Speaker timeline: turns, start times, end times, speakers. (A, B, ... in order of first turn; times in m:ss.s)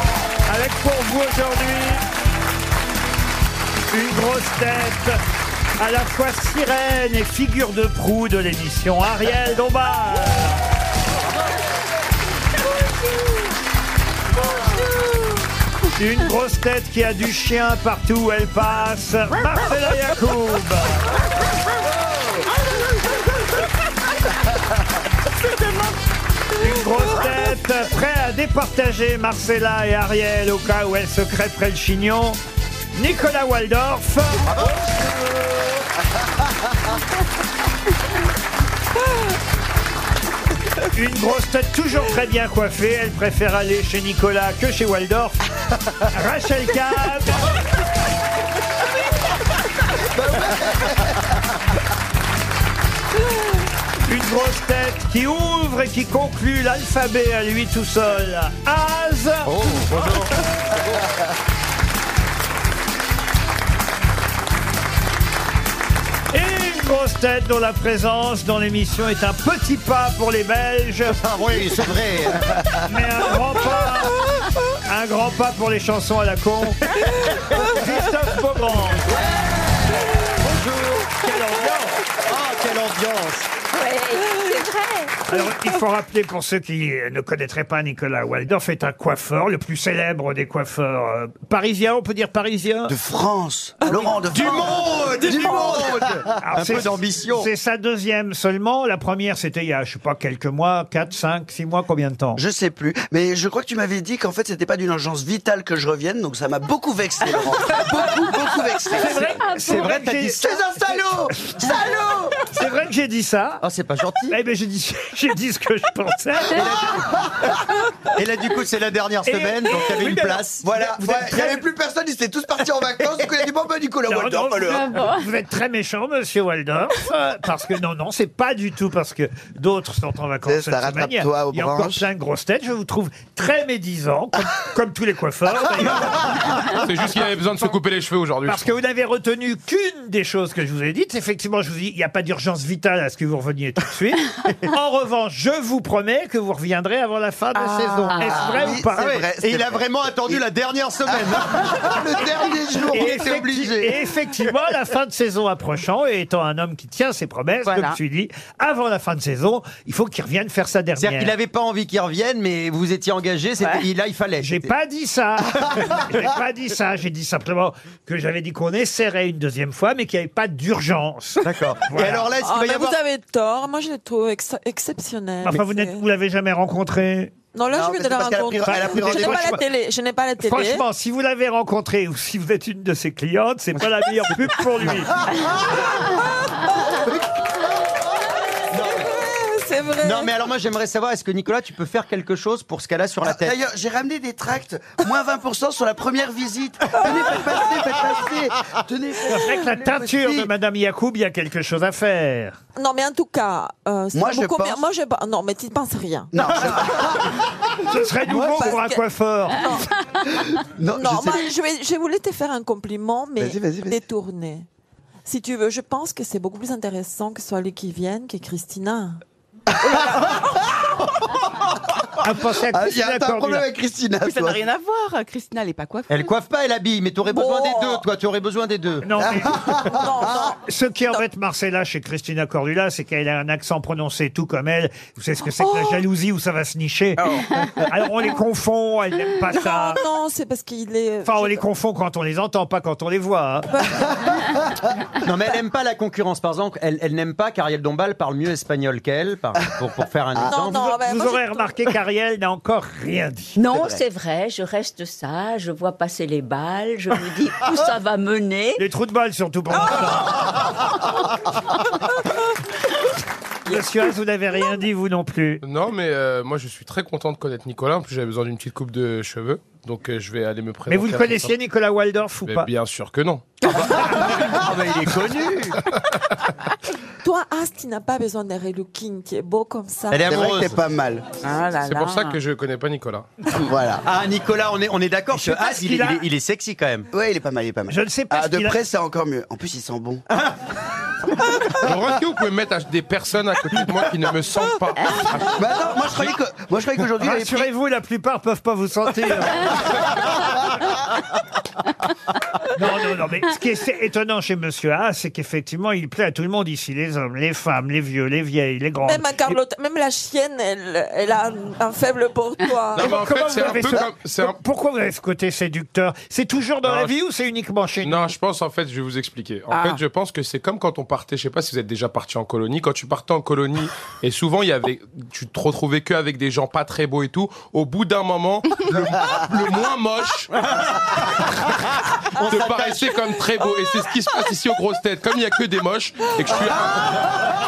0:00.5-0:02.0 A
0:03.9-0:05.2 A
0:05.8-0:10.6 A
0:16.0-0:21.1 A
0:26.6-0:32.4 A
0:32.9-0:34.6 A
0:34.6-0:34.8 B
0:34.6-0:35.6 C
0:40.9-0:45.4 A
0:46.0-0:47.5 A
0:50.1-0:51.4 C
0:54.0-0:59.8 A
0:59.5-1:00.0 B
0:59.9-1:00.4 D
1:06.3-1:11.2 A
1:11.2-1:12.4 B
1:12.9-1:14.2 A
1:14.8-1:19.1 A
1:19.9-1:23.6 B
1:23.7-1:25.2 E
1:25.3-1:33.0 A
1:32.9-1:36.3 C
1:34.3-1:35.9 B
1:36.4-1:42.4 A
1:36.5-1:37.5 B
1:42.4-1:49.3 C
1:48.9-1:51.7 A
1:49.6-1:50.5 B
1:50.3-1:52.4 C
1:52.5-1:53.6 A
1:53.6-1:54.4 B
1:54.3-1:57.1 A
1:56.9-1:57.5 C
1:58.2-2:00.7 B
1:59.2-2:01.6 A
2:00.6-2:04.9 C
2:04.1-2:17.7 A
2:04.7-2:05.3 E
2:10.4-2:12.1 C
2:15.8-2:16.5 C
2:16.7-2:18.7 D
2:18.4-2:29.2 A
2:27.6-2:28.0 F
2:28.1-2:28.7 E
2:28.3-2:30.4 C
2:29.0-2:31.7 B
2:31.0-2:33.9 C
2:32.9-2:41.4 A
2:37.7-2:38.0 F
2:41.0-2:44.7 B
2:44.4-2:52.3 A
2:51.4-2:53.0 B
2:52.4-2:56.0 G
2:55.4-2:57.3 A
2:57.5-3:00.8 G
2:57.7-2:59.6 C
2:58.6-2:59.6 A
3:00.4-3:05.2 A
3:05.3-3:06.1 C
3:07.0-3:07.9 C
3:08.7-3:09.2 B
3:09.2-3:10.4 G
3:10.0-3:13.6 B
3:13.2-3:20.5 C
3:19.3-3:22.6 A
3:22.8-3:26.3 G
3:24.1-3:24.9 C
3:26.3-3:27.4 C
3:27.8-3:29.8 A
3:28.3-3:28.8 C
3:28.3-3:29.0 G
3:29.6-3:29.9 G
3:30.3-3:31.5 C
3:31.0-3:34.7 G
3:33.4-3:34.0 C
3:35.2-3:39.2 G
3:39.7-3:41.9 C
3:39.8-3:40.6 G
3:42.2-3:43.7 A
3:42.7-3:44.6 C
3:44.2-3:46.3 F
3:46.1-3:49.1 B
3:47.3-3:48.0 G
3:49.0-4:00.0 A
3:49.2-3:50.5 C
3:49.9-3:51.2 G
3:55.6-3:56.0 G
3:59.6-4:01.6 G
4:01.2-4:03.7 A
4:03.7-4:04.1 G
4:05.2-4:10.9 B
4:10.5-4:11.7 G
4:10.7-4:13.6 A
4:13.6-4:18.8 E
4:13.7-4:14.0 C
4:18.8-4:20.5 A
4:23.7-4:25.6 A
4:25.6-4:31.5 D
4:30.9-4:32.7 A
4:32.4-4:34.3 D
4:33.6-4:35.8 B
4:37.2-4:40.3 G
4:40.1-4:40.8 B
4:40.2-4:41.3 C
4:41.4-4:41.9 E
4:41.5-4:42.3 F
4:41.8-4:43.3 D
4:43.6-4:44.0 C
4:44.0-4:47.1 B
4:45.3-4:46.3 A
4:47.1-4:50.2 C
4:47.9-4:48.8 A
4:51.8-4:56.4 D
4:55.4-4:57.7 C
4:57.2-4:59.9 A
5:02.7-5:09.6 A
5:09.0-5:13.7 G
5:12.9-5:14.6 D
5:13.0-5:18.3 A
5:16.8-5:17.1 D
5:18.0-5:30.7 D
5:19.7-5:20.0 F
5:31.2-5:37.4 D
5:32.5-5:32.9 B